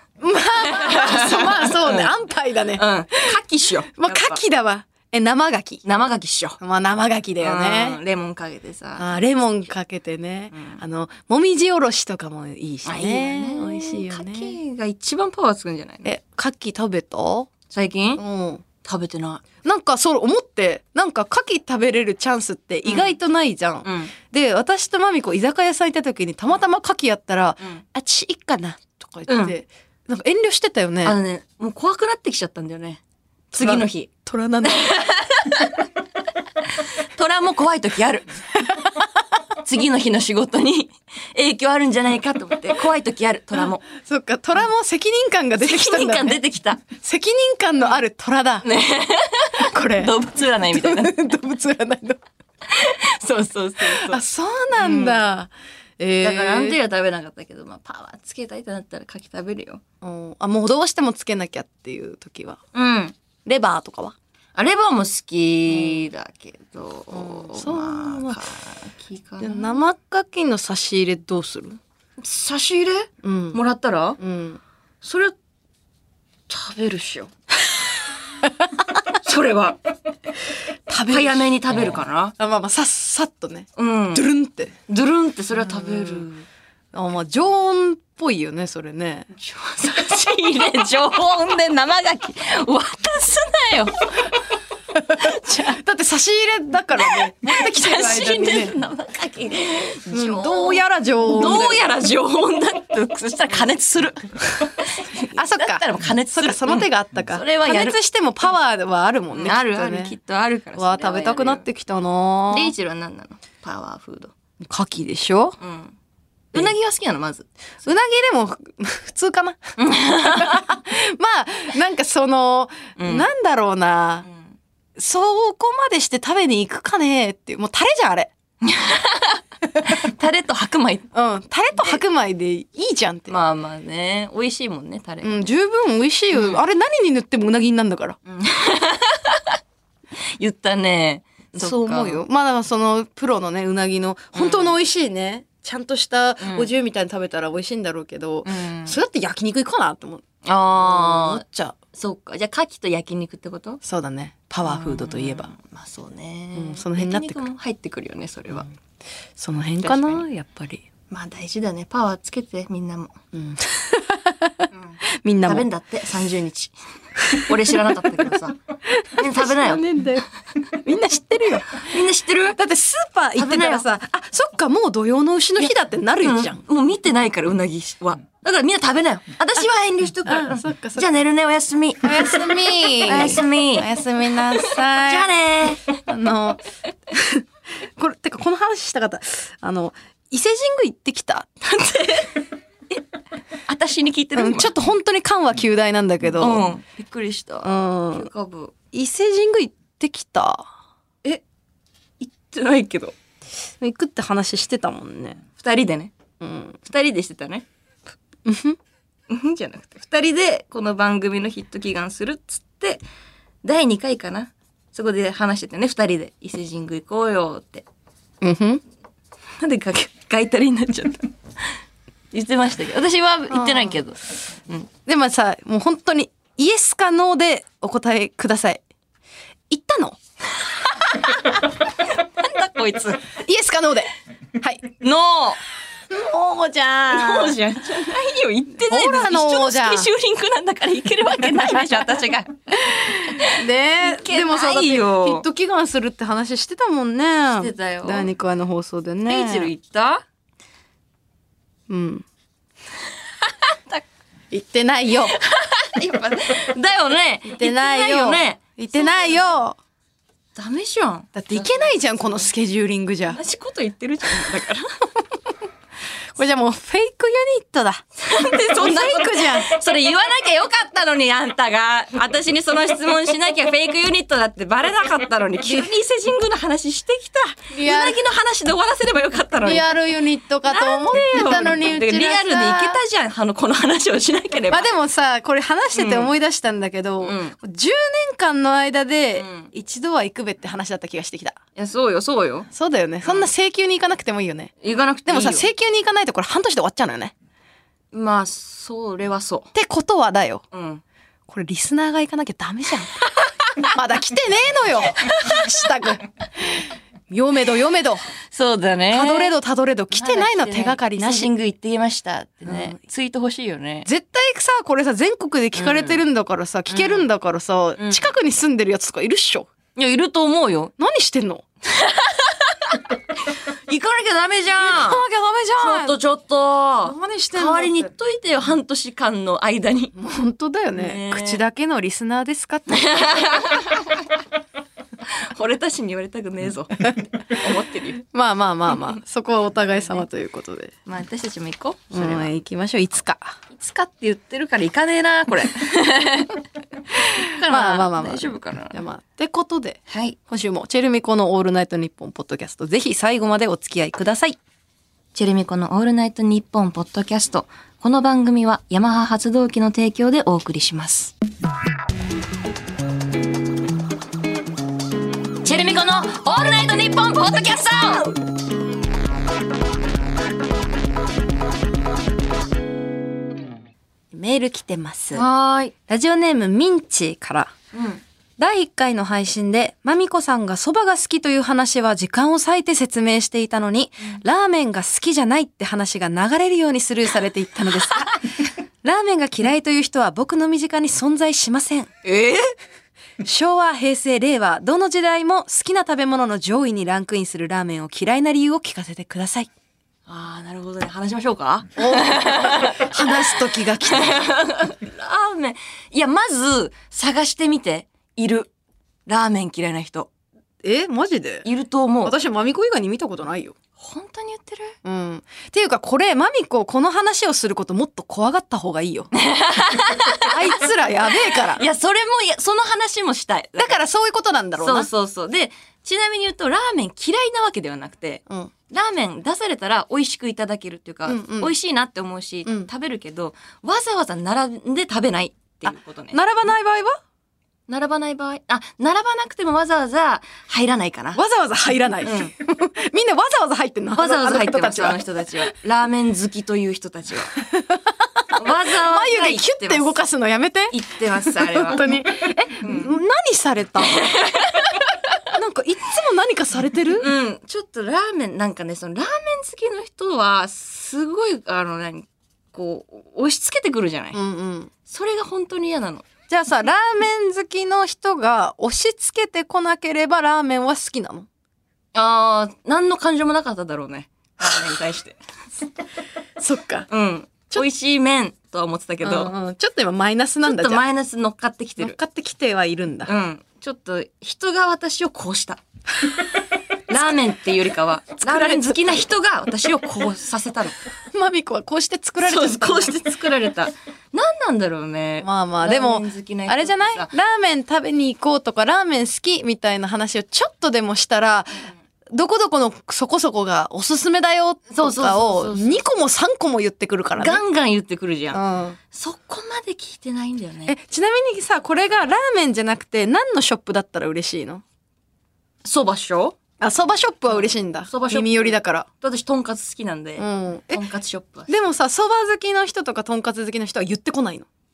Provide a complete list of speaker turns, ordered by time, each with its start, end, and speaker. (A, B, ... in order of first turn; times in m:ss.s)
0:00.2-0:03.4 A
0:00.6-0:02.1 B
0:02.7-0:04.4 B
0:04.0-0:05.8 A
0:05.8-0:06.6 B
0:06.6-0:08.0 A
0:07.4-0:09.1 B
0:09.0-0:14.6 A
0:10.5-0:10.8 B
0:12.8-0:16.1 B
0:16.0-0:17.5 A
0:17.7-0:18.2 B
0:18.2-0:18.6 A
0:18.8-0:19.4 B
0:19.6-0:31.2 A
0:22.9-0:23.2 B
0:23.8-0:24.1 B
0:29.3-0:29.6 B
0:31.0-0:33.0 B
0:33.5-0:34.1 B
0:33.5-0:34.9 A
0:34.6-0:35.9 B
0:36.7-0:38.4 B
0:38.7-0:39.0 A
0:39.6-0:43.9 B
0:43.9-0:46.4 A
0:45.6-0:46.8 B
0:47.0-0:48.7 A
0:48.6-0:51.3 B
0:49.6-0:52.2 A
0:52.6-0:54.2 B
0:53.8-0:56.8 A
0:54.8-0:55.3 B
0:56.2-0:59.8 B
1:00.0-1:02.6 A
1:02.7-1:03.2 B
1:03.5-1:04.2 A
1:04.6-1:09.8 B
1:05.7-1:06.1 A
1:07.1-1:08.4 A
1:09.4-1:11.8 A
1:12.2-1:14.2 B
1:13.2-1:13.6 A
1:14.2-1:14.6 A
1:15.0-1:15.4 B
1:16.5-1:17.3 B
1:19.1-1:19.8 B
1:20.9-1:24.8 A
1:21.1-1:22.4 B
1:23.8-1:24.3 B
1:24.9-1:26.5 B
1:25.6-1:26.3 A
1:26.9-1:29.3 A
1:29.3-1:34.4 B
1:34.9-1:38.8 A
1:35.2-1:35.7 B
1:37.1-1:48.0 B
1:40.1-1:41.9 A
1:45.3-1:50.1 A
1:49.3-1:51.6 B
1:50.8-1:52.7 A
1:52.5-1:54.3 B
1:54.6-1:55.6 A
1:55.6-1:55.9 B
1:56.5-1:57.5 B
1:57.8-1:59.6 A
1:59.8-2:00.7 B
2:00.2-2:04.2 A
2:03.0-2:03.3 B
2:04.2-2:04.5 B
2:05.0-2:08.3 A
2:08.6-2:11.1 B
2:11.1-2:13.4 A
2:13.3-2:15.5 B
2:15.2-2:18.2 A
2:18.2-2:19.6 B
2:20.2-2:22.2 B
2:21.5-2:30.2 A
2:24.4-2:24.8 B
2:26.4-2:26.7 B
2:28.4-2:29.0 B
2:30.4-2:31.4 B
2:30.8-2:31.8 A
2:31.9-2:33.8 B
2:33.8-2:35.5 A
2:34.6-2:38.7 B
2:36.6-2:37.4 A
2:39.4-2:40.8 A
2:39.8-2:40.2 B
2:41.1-2:43.2 B
2:43.3-2:45.7 A
2:44.7-2:48.6 B
2:47.2-2:47.7 A
2:48.9-2:51.9 A
2:49.2-2:49.9 B
2:51.8-2:52.6 B
2:52.6-2:56.6 A
2:53.4-2:53.8 B
2:56.2-3:04.0 B
3:00.3-3:01.1 A
3:02.0-3:05.3 A
3:04.5-3:05.9 B
3:05.9-3:07.4 A
3:08.0-3:11.6 A
3:11.6-3:12.4 B
3:13.7-3:14.7 B
3:14.3-3:16.7 A
3:16.4-3:18.7 B
3:17.6-3:18.3 A
3:18.9-3:20.7 A
3:22.2-3:23.2 B
3:23.8-3:25.4 A
3:25.6-3:26.1 B
3:26.4-3:26.8 A
3:26.8-3:27.7 B
3:28.4-3:28.8 A
3:29.3-3:33.0 B
3:33.6-3:37.8 B
3:38.4-3:38.8 A
3:39.6-3:41.3 B
3:42.3-3:44.9 B
3:43.5-3:44.0 A
3:45.1-3:48.8 A
3:49.7-3:50.2 A
3:51.1-3:53.3 B
3:53.4-3:54.9 A
3:55.0-3:55.6 B
3:56.1-3:57.6 A
3:57.1-4:05.4 B
3:58.9-4:00.1 A
4:02.8-4:09.7 A
4:07.5-4:08.3 B
4:09.3-4:10.2 B
4:11.9-4:12.2 A
4:13.4-4:14.0 B
4:14.5-4:15.4 A
4:15.3-4:19.5 B
4:17.4-4:19.8 A
4:20.6-4:22.4 B
4:21.3-4:23.4 A
4:23.3-4:25.1 B
4:26.3-4:28.0 A
4:28.2-4:39.9 B
4:28.7-4:29.7 A
4:37.7-4:38.2 A
4:39.6-4:43.0 A
4:40.7-4:44.9 B
4:44.7-4:51.6 A
4:45.9-4:46.3 B
4:47.2-4:47.6 B
4:49.4-4:49.7 B
4:51.8-4:52.7 B
4:52.7-4:54.7 A
4:54.8-4:55.7 B
4:55.3-4:57.3 A
4:58.1-4:59.7 B
4:59.7-5:00.6 A
5:00.7-5:01.0 B
5:01.5-5:03.3 A
5:03.4-5:03.9 B
5:03.8-5:08.3 A
5:05.2-5:05.6 B
5:08.5-5:09.6 B
5:09.1-5:11.5 A
5:10.1-5:14.1 B
5:12.7-5:13.0 A
5:14.0-5:19.7 A
5:15.8-5:16.2 B
5:16.9-5:17.3 B
5:18.0-5:18.3 B
5:19.9-5:20.9 B
5:21.0-5:21.6 A
5:21.9-5:25.2 B
5:24.8-5:26.2 A
5:25.8-5:30.1 B
5:27.0-5:28.1 A
5:30.2-5:33.6 A
5:30.9-5:31.6 B
5:32.9-5:34.3 B
5:35.2-5:38.2 B
5:38.3-5:40.9 A
5:41.1-5:42.5 B
5:42.1-5:43.6 A
5:43.7-5:46.6 B
5:47.2-5:49.0 B
5:47.3-5:54.6 A
5:50.1-5:50.4 B
5:55.3-6:01.3 B
6:05.6-6:08.4 B
6:14.3-6:15.4 A
6:15.3-6:15.9 B
6:16.1-6:17.7 A
6:17.9-6:18.2 B
6:18.6-6:32.1 A
6:32.2-6:32.7 B
6:33.4-6:39.7 A
6:40.3-6:43.4 B
6:42.0-6:44.4 A
6:44.0-6:48.7 B
6:49.3-6:50.3 B
6:50.8-6:51.7 A
6:51.6-6:52.3 B
6:52.2-6:53.8 A
6:54.0-6:55.0 B
6:55.0-6:59.3 A
6:59.3-7:04.0 B
7:00.3-7:01.8 A
7:03.8-7:05.1 A
7:04.8-7:16.4 B
7:11.3-7:11.7 A
7:15.9-7:17.2 A
7:17.9-7:21.4 B
7:21.3-7:25.2 A
7:22.2-7:22.5 B
7:24.2-7:27.6 B
7:27.7-7:34.3 A
7:28.5-7:30.2 B
7:30.9-7:32.2 B
7:32.8-7:33.1 B
7:34.0-7:35.4 B
7:35.5-7:37.3 A
7:37.2-7:44.4 B
7:44.3-7:44.9 A
7:45.1-7:46.3 B
7:46.5-7:51.5 A
7:52.1-7:55.4 B
7:56.6-7:57.1 A
7:57.1-7:59.5 B
7:59.2-8:01.0 A
8:00.6-8:02.2 B
8:02.0-8:03.3 A
8:03.3-8:05.8 B
8:07.1-8:11.0 B
8:08.4-8:09.2 A
8:11.3-8:13.2 A
8:12.4-8:17.3 B
8:15.4-8:27.6 A
8:24.9-8:26.0 B
8:27.4-8:30.9 B
8:28.5-8:29.0 A
8:30.9-8:34.8 A
8:35.8-8:36.6 B
8:36.8-8:39.1 A
8:37.5-8:41.7 B
8:40.4-8:41.0 A
8:41.7-8:44.6 A